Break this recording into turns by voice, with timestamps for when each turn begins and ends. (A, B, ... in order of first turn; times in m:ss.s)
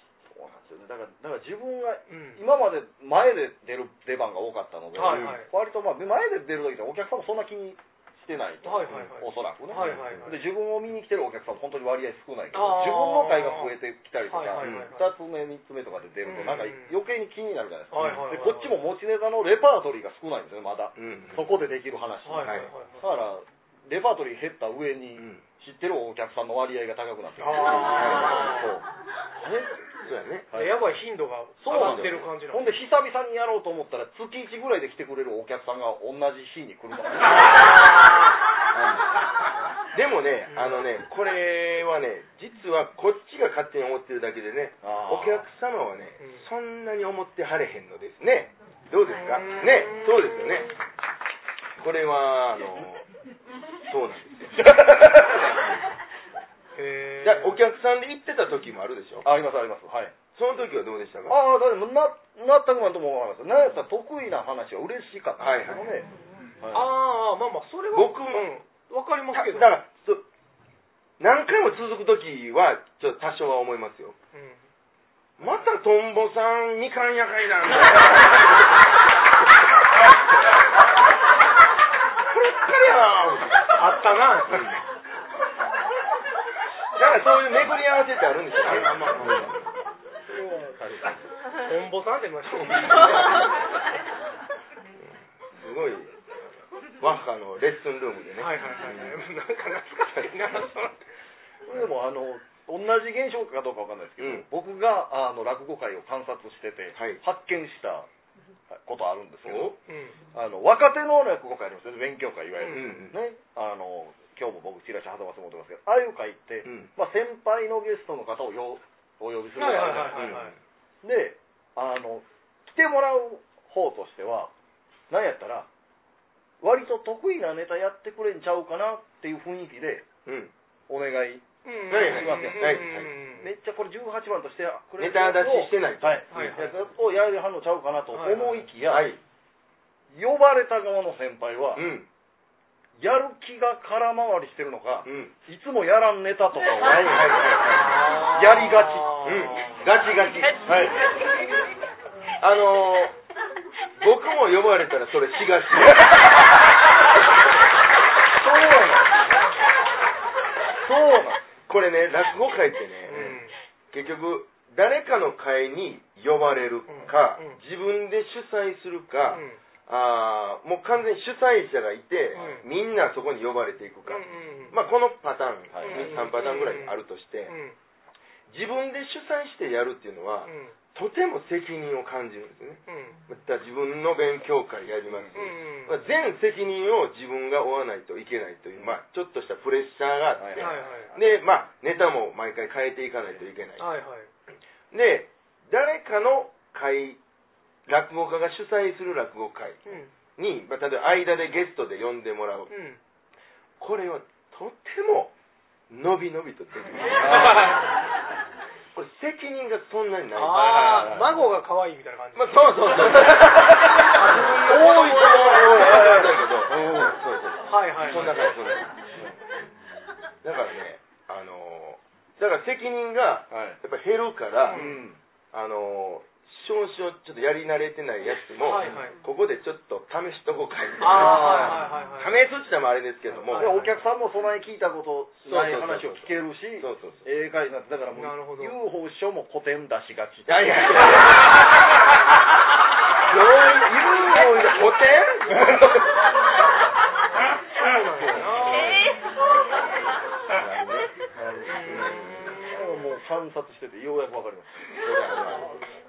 0:00.3-0:29.8 A
0:02.1-0:02.4 B
0:04.9-0:05.5 B
0:05.0-0:05.4 C
0:08.6-0:10.4 B
0:09.7-0:10.3 C
0:12.5-0:13.8 B
0:14.3-0:15.1 B
0:14.6-0:14.9 C
0:16.2-0:16.9 B
0:17.9-0:18.8 B
0:18.0-0:18.2 C
0:21.0-0:21.5 C
0:22.2-0:23.1 B
0:22.4-0:22.7 C
0:25.2-0:25.4 C
0:27.4-0:28.7 B
0:27.9-0:28.6 C
0:30.0-0:30.5 C
0:30.5-0:30.8 A
0:30.5-0:32.7 B
0:31.6-0:38.1 A
0:31.7-0:32.3 C
0:37.3-0:38.3 B
0:38.7-0:39.0 C
0:39.9-0:50.7 C
0:40.5-0:40.8 B
0:44.8-0:45.5 A
0:46.2-0:46.5 B
0:49.2-0:50.7 B
0:51.8-0:53.1 C
0:53.9-0:54.7 C
0:54.5-0:55.7 A
0:56.8-0:57.6 B
0:57.2-0:59.2 C
0:59.2-1:00.1 A
1:00.3-1:01.4 C
1:01.3-1:06.1 A
1:05.4-1:05.9 C
1:06.6-1:06.9 A
1:06.7-1:09.7 B
1:07.9-1:08.5 C
1:09.3-1:10.2 C
1:11.2-1:14.1 C
1:14.3-1:14.6 B
1:15.4-1:18.5 C
1:22.3-1:23.8 C
1:23.7-1:24.8 B
1:24.4-1:24.8 C
1:26.9-1:29.6 C
1:29.2-1:29.5 A
1:30.2-1:31.2 A
1:31.6-1:33.5 B
1:35.5-1:36.1 C
1:37.0-1:39.2 C
1:38.4-1:41.0 B
1:41.7-1:48.1 A
1:44.2-1:44.4 C
1:47.0-1:47.2 C
1:48.7-1:49.7 A
1:49.4-1:49.8 C
1:49.9-1:50.2 B
1:50.3-2:00.4 A
1:52.6-1:52.9 B
1:52.6-1:53.2 C
1:59.6-2:00.5 B
2:00.1-2:00.6 C
2:01.0-2:04.5 A
2:05.1-2:05.7 A
2:06.6-2:10.0 A
2:10.2-2:10.5 C
2:10.9-2:19.1 A
2:11.6-2:13.5 B
2:11.9-2:13.1 C
2:15.0-2:16.5 C
2:16.3-2:16.7 B
2:18.1-2:18.7 B
2:18.8-2:19.2 C
2:20.1-2:21.9 A
2:21.7-2:22.1 C
2:23.0-2:29.4 A
2:25.0-2:25.3 C
2:26.8-2:28.0 C
2:27.7-2:29.8 B
2:29.2-2:30.7 C
2:30.6-2:31.1 A
2:32.4-2:33.1 C
2:34.0-2:36.1 C
2:38.4-2:39.2 A
2:40.8-2:41.4 A
2:41.7-2:43.2 C
2:43.1-2:43.5 B
2:43.1-2:43.4 A
2:43.9-2:57.5 C
2:46.9-2:47.6 B
2:49.3-2:49.6 B
2:52.3-2:52.6 B
2:54.1-2:54.8 B
2:55.7-2:56.3 A
2:55.8-2:57.8 B
2:58.5-3:13.8 C
3:00.4-3:00.7 B
3:02.9-3:03.2 B
3:05.1-3:05.4 A
3:05.3-3:06.0 B
3:10.4-3:11.2 A
3:10.6-3:11.1 B
3:13.8-3:14.3 B
3:14.9-3:17.2 C
3:17.8-3:19.8 C
3:19.8-3:20.1 B
3:20.4-3:22.7 C
3:22.7-3:23.0 B
3:23.8-3:25.3 C
3:25.9-3:27.8 C
3:27.0-3:27.8 A
3:27.2-3:27.8 B
3:28.9-3:31.2 C
3:30.3-3:36.3 B
3:30.7-3:31.5 A
3:32.3-3:38.9 C
3:33.2-3:37.2 A
3:37.6-3:38.4 B
3:40.4-3:44.8 C
3:43.5-3:43.8 A
3:44.6-3:45.0 B
3:44.7-3:45.2 A
3:45.5-3:53.8 C
3:48.6-3:49.2 B
3:48.8-3:49.0 A
3:51.0-3:52.4 B
3:51.0-3:51.9 A
3:53.4-3:53.9 B
3:53.5-4:01.2 A
3:55.4-3:57.2 C
3:58.1-3:58.7 B
4:00.5-4:01.4 C
4:03.3-4:05.9 C
4:05.5-4:06.0 A
4:07.8-4:09.0 B
4:08.2-4:09.1 A
4:10.5-4:11.1 C
4:11.3-4:15.8 A
4:11.7-4:12.8 B
4:11.8-4:12.7 C
4:15.0-4:15.7 C